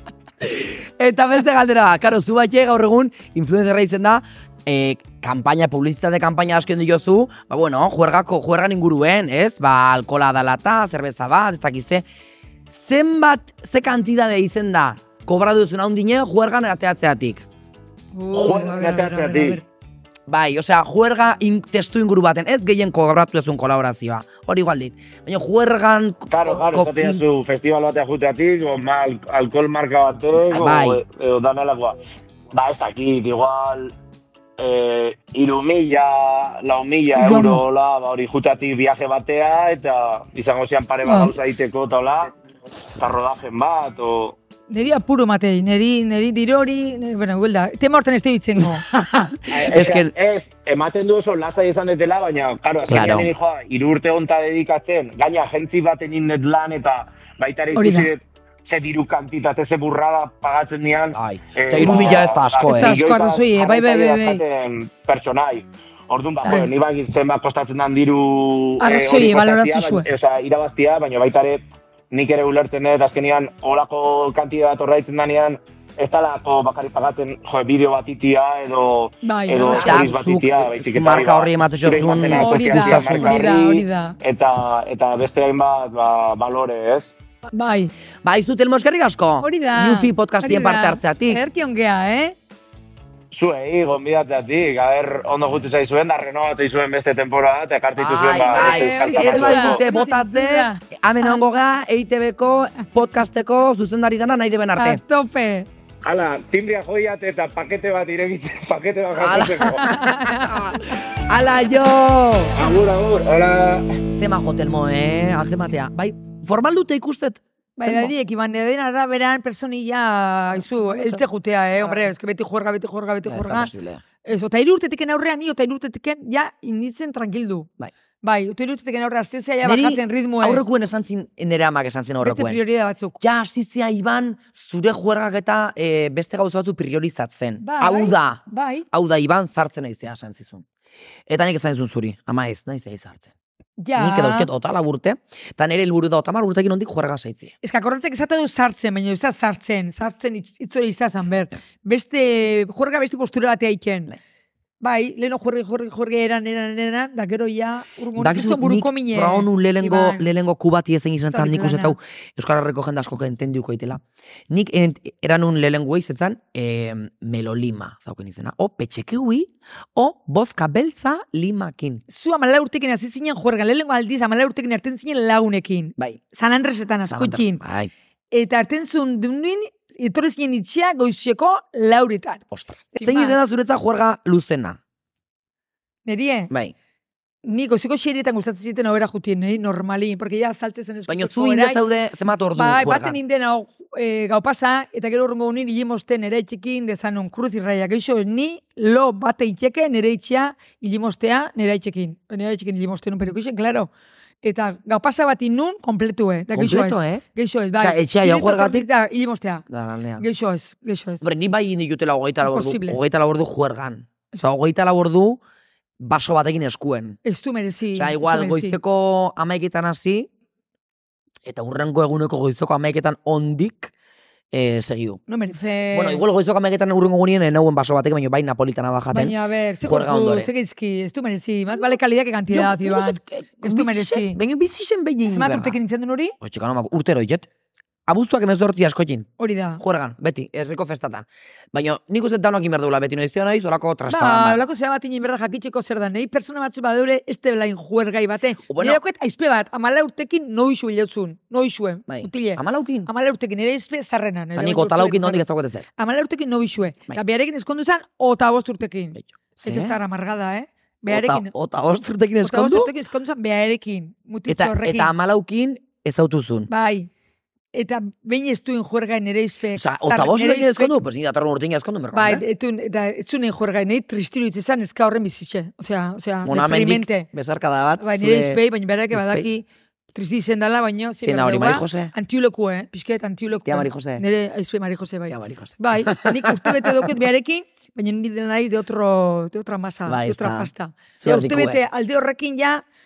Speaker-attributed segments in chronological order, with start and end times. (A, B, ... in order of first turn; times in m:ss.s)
0:00.4-0:12.0 A
0:12.7-0:17.4 A
0:18.1-0:19.6 B
0:18.3-0:19.6 C
0:20.3-0:27.2 A
0:26.3-0:32.0 C
0:30.5-0:31.0 A
0:32.5-0:33.9 C
0:34.6-0:42.3 C
0:37.2-0:37.6 B
0:41.0-0:41.3 B
0:42.9-0:44.4 C
0:44.7-0:48.9 B
0:48.9-0:50.1 A
0:49.5-1:27.1 C
0:52.9-0:53.3 A
0:57.7-0:58.1 B
1:01.1-1:03.0 A
1:01.8-1:04.4 B
1:08.8-1:10.1 B
1:19.2-1:20.0 B
1:19.6-1:23.6 A
1:22.3-1:24.1 B
1:27.5-1:27.9 B
1:28.2-1:31.4 A
1:29.4-1:32.3 B
1:33.3-1:39.8 C
1:38.0-1:45.0 A
1:38.5-1:40.8 B
1:44.8-1:45.7 B
1:46.0-1:50.0 C
1:49.2-1:52.6 A
1:49.8-1:50.8 B
1:52.5-1:53.8 C
1:54.2-1:58.1 A
1:57.8-2:03.7 B
2:00.7-2:01.2 A
2:03.3-2:04.0 A
2:04.2-2:07.7 B
2:08.2-2:10.6 B
2:09.6-2:12.6 A
2:12.2-2:13.2 B
2:13.2-2:20.6 A
2:17.6-2:18.8 B
2:21.3-2:23.3 A
2:23.8-2:24.5 B
2:24.0-2:27.5 A
2:27.6-2:34.1 B
2:34.8-2:40.3 B
2:38.2-2:52.0 A
2:41.3-2:42.0 B
2:52.1-2:57.6 B
2:57.0-2:57.9 A
2:58.3-3:03.4 B
3:02.5-3:04.8 A
3:06.0-3:06.5 B
3:07.4-3:11.8 B
3:11.1-3:13.2 A
3:12.5-3:23.9 B
3:24.4-3:29.6 B
3:26.5-3:27.2 A
3:27.8-3:28.8 A
3:29.7-3:30.2 A
3:30.2-3:31.2 B
3:31.2-3:35.4 A
3:32.4-3:33.0 B
3:36.0-3:37.2 A
3:37.2-3:38.8 B
3:37.9-3:40.3 A
3:41.4-3:43.9 A
3:44.5-3:45.2 A
3:45.3-3:46.2 B
3:45.9-3:50.5 A
3:49.1-3:54.4 B
3:52.5-3:55.8 A
3:55.2-3:56.4 B
3:56.4-3:57.5 A
3:58.1-4:04.6 A
3:59.4-3:59.8 B
4:04.1-4:15.4 B
4:08.7-4:09.0 A
4:12.1-4:13.1 A
4:14.6-4:15.8 A
4:16.0-4:21.5 B
4:19.2-4:20.0 A
4:21.1-4:22.9 A
4:22.4-4:25.1 B
4:24.5-4:26.7 A
4:26.7-4:27.1 B
4:27.7-4:31.0 B
4:29.7-4:32.4 A
4:32.1-4:37.3 B
4:36.4-4:38.6 A
4:38.0-4:52.8 B
4:39.1-4:39.4 A
4:41.2-4:42.1 A
4:43.7-4:44.2 A
4:45.3-4:47.1 A
4:50.0-4:51.8 A